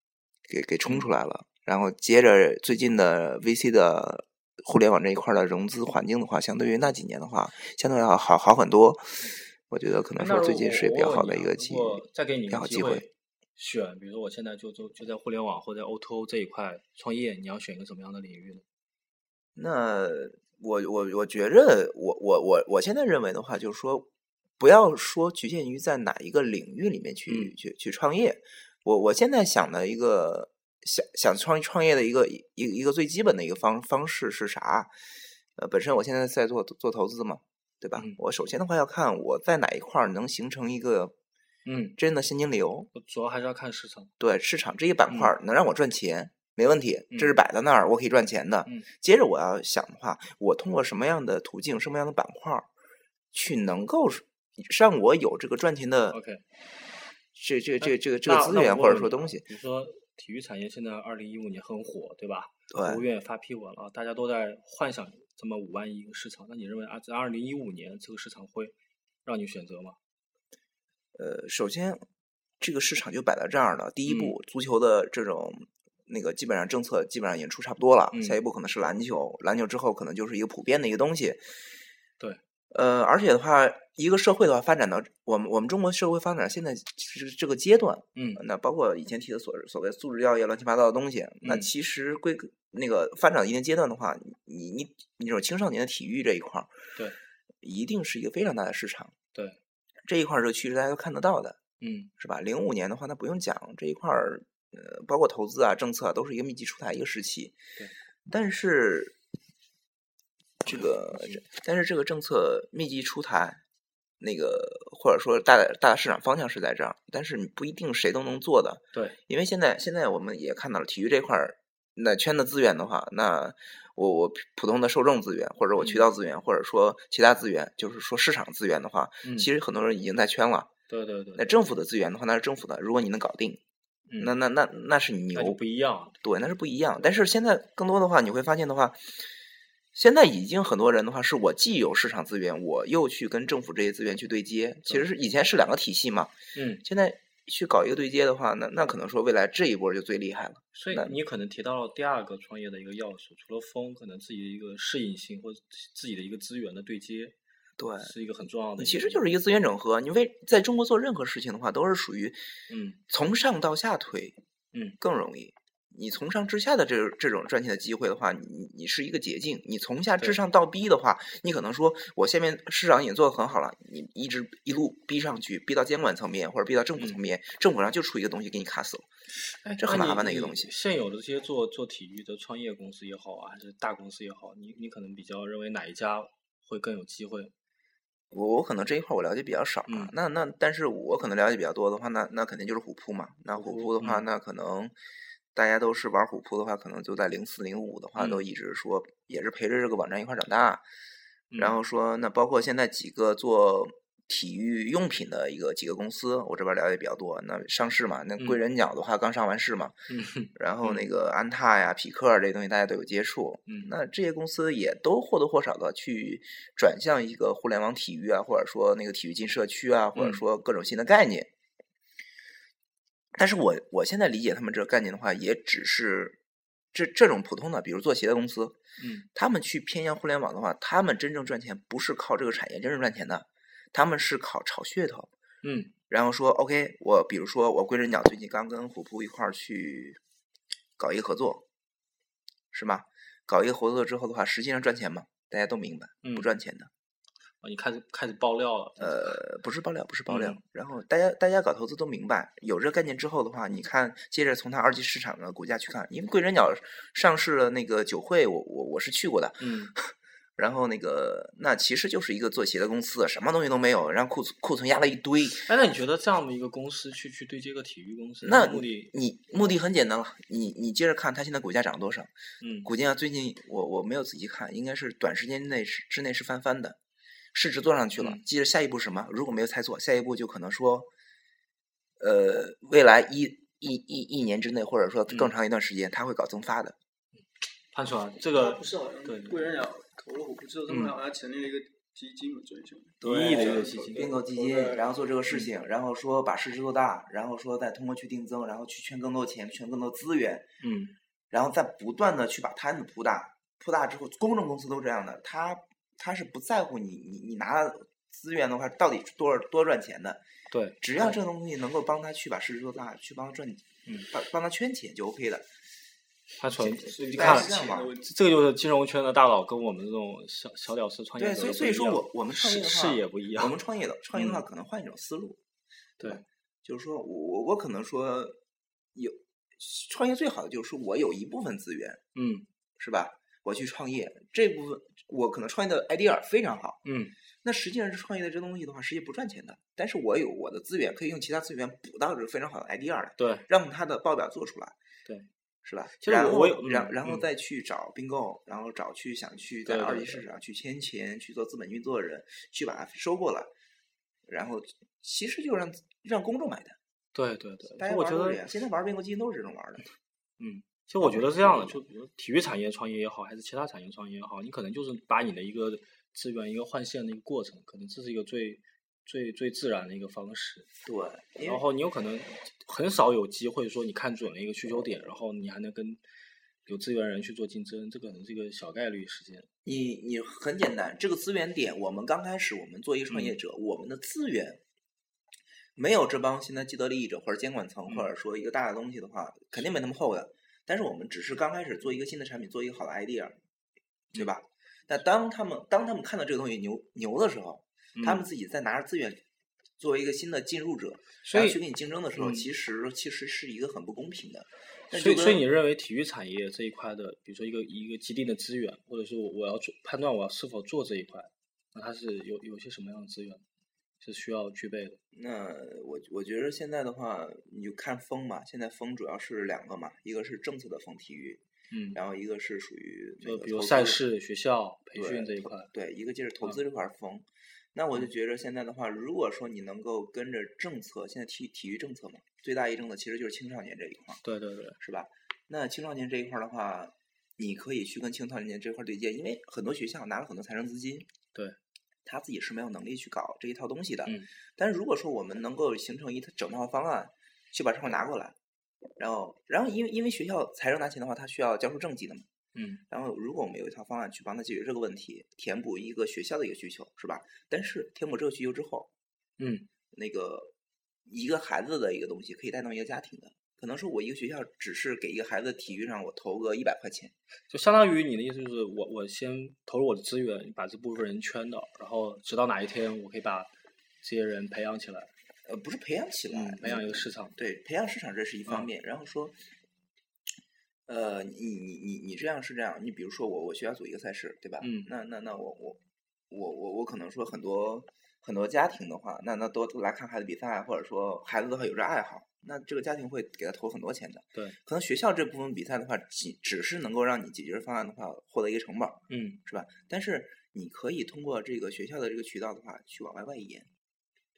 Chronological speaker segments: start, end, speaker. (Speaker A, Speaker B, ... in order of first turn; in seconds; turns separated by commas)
Speaker A: 0.5-9.2, Speaker A: 9.7-13.1, Speaker B: 10.2-18.6, Speaker A: 19.6-24.1, Speaker A: 24.6-34.9, Speaker B: 27.3-27.5, Speaker A: 35.6-41.1, Speaker B: 41.7-42.0, Speaker A: 42.0-42.9, Speaker B: 42.9-44.1, Speaker A: 44.2-52.7, Speaker B: 47.1-47.4, Speaker A: 53.3-56.2, Speaker B: 56.1-56.4, Speaker A: 57.4-59.5, Speaker B: 57.8-70.0, Speaker A: 62.7-63.0, Speaker A: 71.2-72.0, Speaker A: 72.6-81.4, Speaker B: 74.1-74.3, Speaker B: 78.1-78.4, Speaker A: 82.7-96.7, Speaker B: 88.2-88.4, Speaker B: 91.4-91.7, Speaker A: 97.6-99.1, Speaker A: 100.1-101.6, Speaker B: 101.8-102.1, Speaker A: 102.2-107.6, Speaker A: 108.3-109.2, Speaker A: 110.6-113.6, Speaker B: 110.7-111.4, Speaker A: 114.2-130.7, Speaker B: 125.8-126.1, Speaker B: 129.2-129.5, Speaker B: 130.9-131.6, Speaker A: 131.4-133.6, Speaker A: 134.2-135.6, Speaker B: 135.3-136.2, Speaker A: 136.2-139.2, Speaker A: 139.9-151.2, Speaker B: 146.6-146.8, Speaker B: 150.8-157.4, Speaker A: 157.8-158.1, Speaker B: 158.0-159.3, Speaker A: 158.8-162.4, Speaker B: 162.7-163.0, Speaker A: 163.1-164.4, Speaker B: 164.7-165.0, Speaker A: 165.0-179.1, Speaker B: 179.4-187.5, Speaker A: 179.8-180.7, Speaker A: 188.3-194.9, Speaker B: 189.9-190.1, Speaker B: 193.5-194.2, Speaker A: 195.5-200.8, Speaker B: 198.2-198.4, Speaker B: 201.5-201.8, Speaker A: 201.6-209.9, Speaker B: 210.1-211.0, Speaker A: 210.6-221.5, Speaker B: 213.7-213.9, Speaker B: 220.2-220.4, Speaker A: 223.3-226.4, Speaker A: 226.9-228.8, Speaker B: 229.0-229.3, Speaker A: 229.3-235.3, Speaker B: 235.6-235.9, Speaker A: 236.1-240.2, Speaker A: 241.0-241.7, Speaker A: 242.7-246.9, Speaker B: 246.2-246.5, Speaker B: 247.6-249.4, Speaker A: 249.0-265.6, Speaker B: 250.3-250.6, Speaker B: 259.6-259.9, Speaker B: 265.6-269.7, Speaker A: 268.4-272.3, Speaker B: 272.6-272.9, Speaker A: 272.8-277.0, Speaker A: 277.5-281.1, Speaker B: 278.2-278.4, Speaker A: 282.2-287.0, Speaker B: 287.9-289.8, Speaker C: 288.5-295.1, Speaker B: 290.9-291.1, Speaker A: 293.2-300.7, Speaker B: 293.2-294.4, Speaker B: 300.8-301.1, Speaker A: 301.5-310.4, Speaker B: 310.7-311.4, Speaker A: 311.0-315.7, Speaker B: 316.6-323.8, Speaker A: 316.8-318.1, Speaker C: 317.0-318.3, Speaker A: 321.4-325.6, Speaker B: 324.4-324.6, Speaker A: 326.2-328.6, Speaker A: 329.1-332.2, Speaker B: 332.4-332.7, Speaker A: 333.0-337.0, Speaker B: 337.1-337.3, Speaker A: 337.6-345.0, Speaker B: 343.4-343.7, Speaker A: 345.8-353.7, Speaker B: 346.2-347.5, Speaker B: 349.9-350.4, Speaker A: 354.5-357.0, Speaker B: 357.3-358.6, Speaker A: 357.9-360.1, Speaker B: 360.6-370.9, Speaker A: 361.2-362.0, Speaker A: 371.1-371.8, Speaker B: 371.6-376.2, Speaker B: 376.9-379.7, Speaker A: 379.9-384.8, Speaker B: 383.3-383.6, Speaker A: 386.0-393.6, Speaker A: 394.3-399.4, Speaker B: 398.2-398.4, Speaker A: 400.0-405.6, Speaker B: 401.4-401.8, Speaker B: 402.4-402.7, Speaker B: 405.1-413.6, Speaker B: 414.2-415.2, Speaker A: 415.3-421.6, Speaker B: 421.9-422.2, Speaker A: 422.1-424.2, Speaker B: 423.4-425.9, Speaker A: 425.2-434.4, Speaker B: 434.4-435.0, Speaker A: 435.0-441.3, Speaker A: 442.2-448.6, Speaker A: 449.2-452.5, Speaker B: 452.8-453.0, Speaker A: 453.1-459.1, Speaker B: 459.6-459.9, Speaker A: 460.1-460.7, Speaker A: 461.3-467.3, Speaker B: 467.7-473.7, Speaker B: 474.2-475.3, Speaker A: 475.7-479.6, Speaker B: 476.5-477.6, Speaker A: 481.1-503.9, Speaker B: 484.8-485.1, Speaker B: 499.3-499.6